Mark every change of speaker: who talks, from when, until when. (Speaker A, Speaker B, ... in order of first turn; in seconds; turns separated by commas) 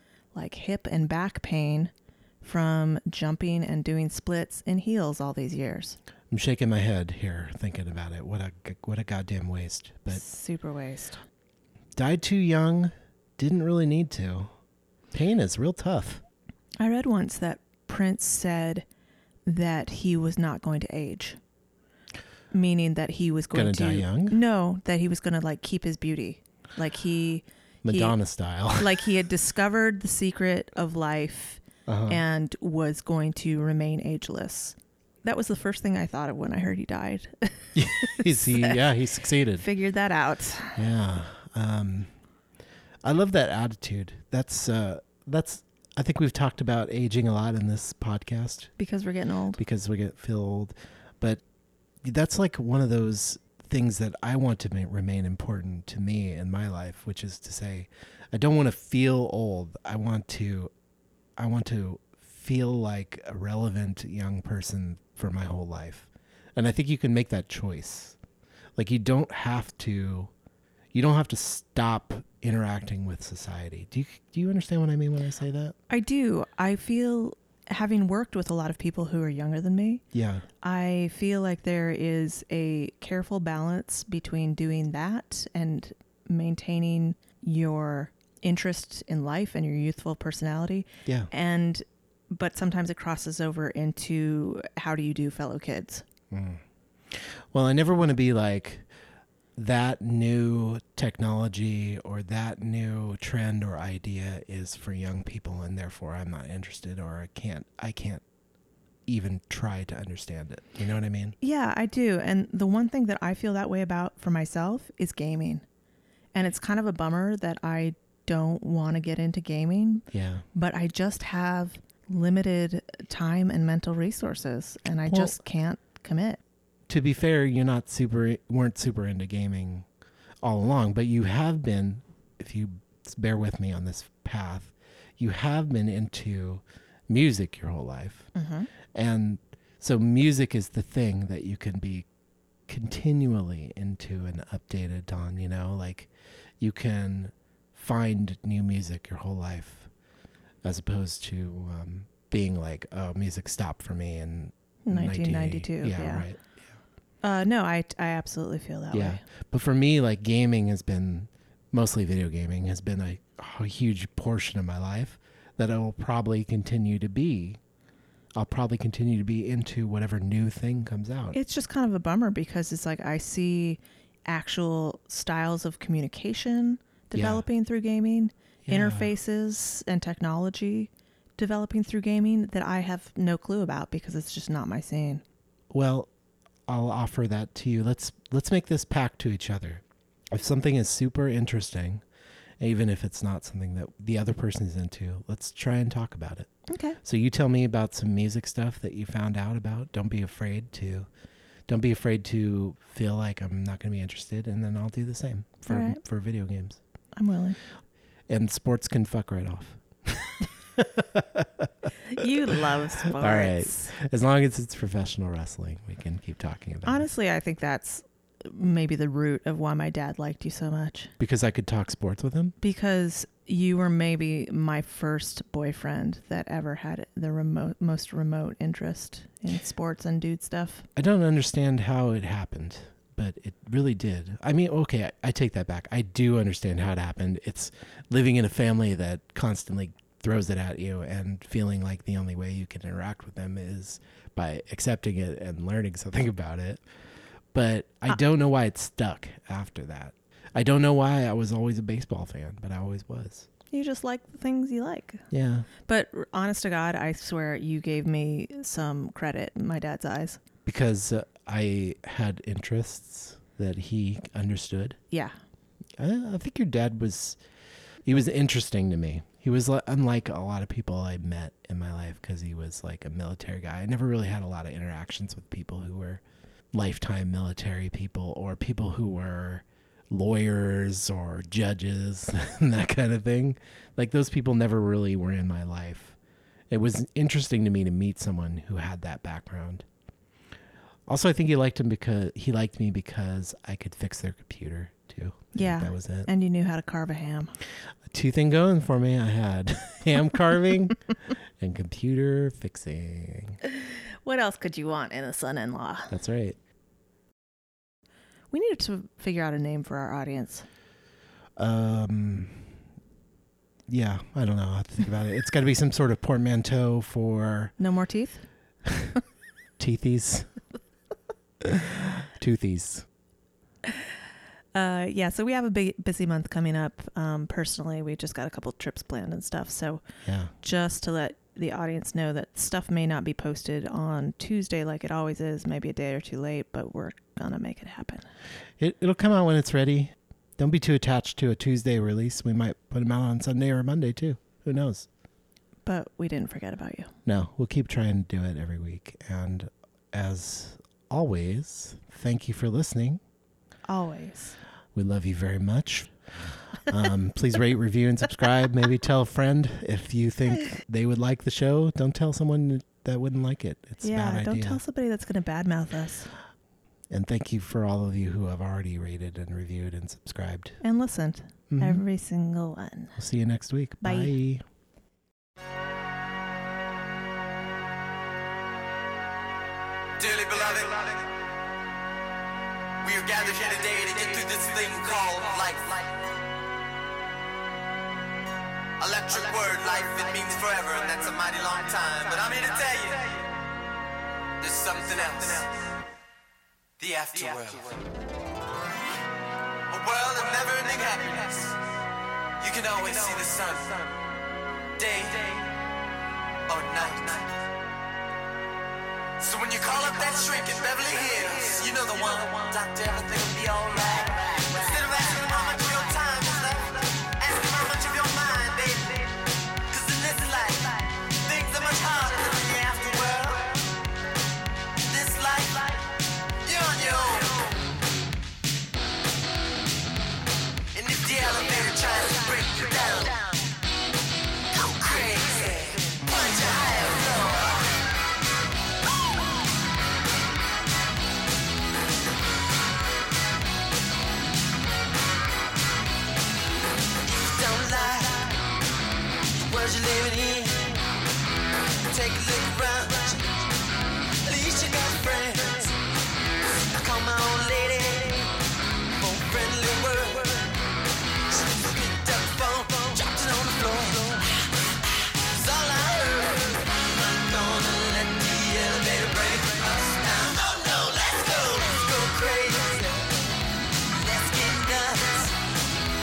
Speaker A: 0.3-6.0, Speaker B: 6.3-10.2, Speaker A: 10.1-11.2, Speaker B: 11.9-14.5, Speaker B: 15.1-16.2, Speaker A: 16.8-18.8, Speaker A: 19.4-21.4, Speaker A: 22.5-28.1, Speaker B: 23.5-24.4, Speaker B: 27.8-29.1, Speaker A: 28.8-38.8, Speaker B: 31.9-32.2, Speaker B: 37.7-39.6, Speaker A: 39.5-40.8, Speaker B: 40.7-42.1, Speaker B: 43.0-48.7, Speaker A: 48.8-49.6, Speaker B: 49.6-51.4, Speaker B: 52.0-60.7, Speaker B: 61.4-68.2, Speaker B: 68.8-70.3, Speaker B: 70.9-75.7, Speaker A: 75.9-80.0, Speaker B: 80.1-80.4, Speaker A: 80.6-96.0, Speaker B: 96.3-98.9, Speaker B: 99.6-108.2, Speaker B: 109.1-111.3, Speaker A: 111.4-115.6, Speaker A: 116.3-126.4, Speaker B: 120.1-120.4, Speaker B: 125.1-125.3, Speaker B: 126.9-129.9, Speaker B: 130.4-138.3, Speaker A: 138.3-138.7, Speaker B: 138.9-142.1, Speaker B: 142.7-149.9, Speaker B: 150.6-156.7, Speaker A: 154.9-156.2, Speaker A: 157.2-159.2, Speaker B: 158.9-167.6, Speaker B: 168.3-171.4, Speaker A: 171.3-185.2, Speaker B: 177.1-177.4, Speaker B: 178.6-179.1, Speaker B: 185.7-186.1, Speaker B: 186.7-192.0, Speaker B: 192.6-196.5, Speaker A: 196.7-197.0, Speaker B: 197.0-201.1, Speaker B: 201.7-206.8, Speaker A: 205.7-206.0, Speaker A: 207.2-207.6, Speaker B: 208.3-217.1, Speaker A: 212.1-213.9, Speaker A: 216.9-221.1, Speaker B: 221.2-222.6, Speaker A: 222.6-230.9, Speaker B: 230.9-246.8, Speaker B: 247.5-253.5, Speaker A: 253.7-255.2, Speaker B: 255.3-255.7, Speaker A: 255.9-260.4, Speaker B: 260.6-265.0, Speaker B: 266.0-267.4, Speaker B: 268.1-286.1, Speaker B: 286.7-289.9, Speaker B: 291.1-296.3, Speaker A: 295.6-297.6, Speaker B: 298.1-303.6, Speaker A: 303.6-306.1, Speaker B: 306.1-306.6, Speaker A: 308.5-310.6, Speaker B: 311.6-312.6, Speaker B: 313.9-317.7, Speaker A: 317.8-318.4, Speaker B: 318.9-319.1, Speaker B: 319.8-320.5, Speaker B: 321.6-323.1, Speaker A: 324.7-330.0, Speaker B: 330.2-330.5, Speaker A: 330.6-338.3, Speaker B: 338.8-345.1, Speaker A: 345.9-347.1, Speaker B: 347.3-353.2, Speaker A: 353.9-354.6, Speaker B: 354.9-356.1, Speaker B: 356.8-364.8, Speaker A: 364.0-366.3, Speaker B: 367.1-370.8, Speaker A: 370.8-373.2, Speaker B: 371.7-372.0, Speaker B: 373.2-374.6, Speaker A: 374.0-374.3, Speaker C: 380.2-381.2, Speaker C: 383.0-386.1, Speaker C: 389.0-393.4, Speaker C: 394.6-395.7, Speaker C: 397.0-398.0, Speaker C: 399.9-401.8, Speaker C: 402.6-404.1, Speaker C: 405.0-405.6, Speaker C: 406.7-407.6, Speaker C: 409.4-419.3, Speaker C: 419.9-423.8, Speaker C: 425.1-426.0, Speaker C: 426.6-427.8, Speaker C: 430.9-433.6, Speaker C: 434.7-437.9, Speaker C: 447.2-448.6, Speaker C: 449.5-451.0, Speaker C: 452.0-453.5, Speaker C: 454.4-455.9, Speaker C: 456.9-458.6, Speaker C: 459.2-460.7, Speaker C: 461.5-464.7, Speaker C: 465.4-473.3, Speaker C: 474.1-475.6